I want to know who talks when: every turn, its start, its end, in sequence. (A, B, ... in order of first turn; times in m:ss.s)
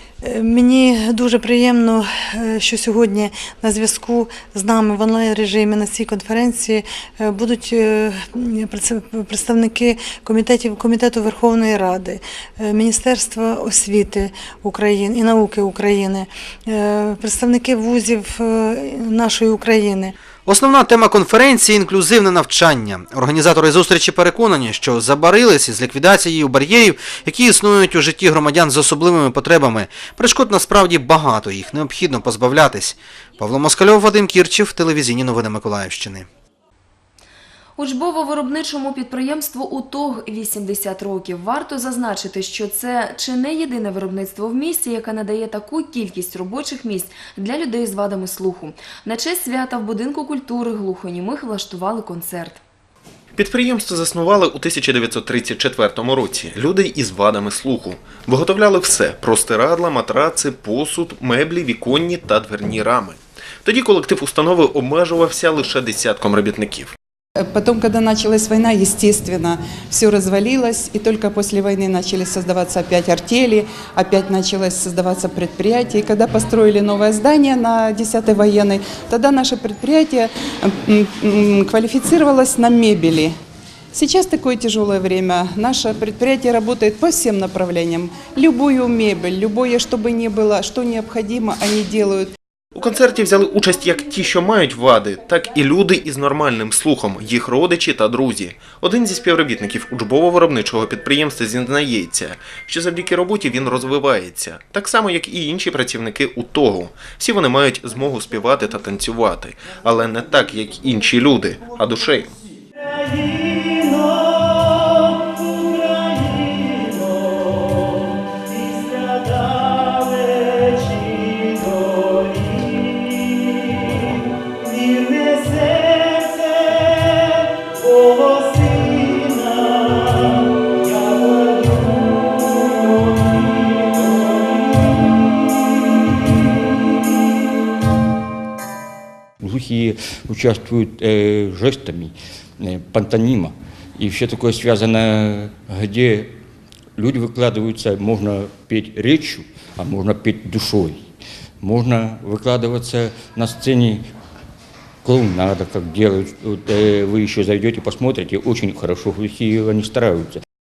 0:00.2-0:20.1 A
0:20.4-0:36.3 B
0:37.8-0:52.6 C
0:53.3-1:06.9 D
1:07.4-1:23.4 E
1:23.9-1:32.3 E
1:32.7-1:52.3 D
2:19.4-2:26.4 F
2:26.9-2:34.1 F
2:35.0-2:40.4 F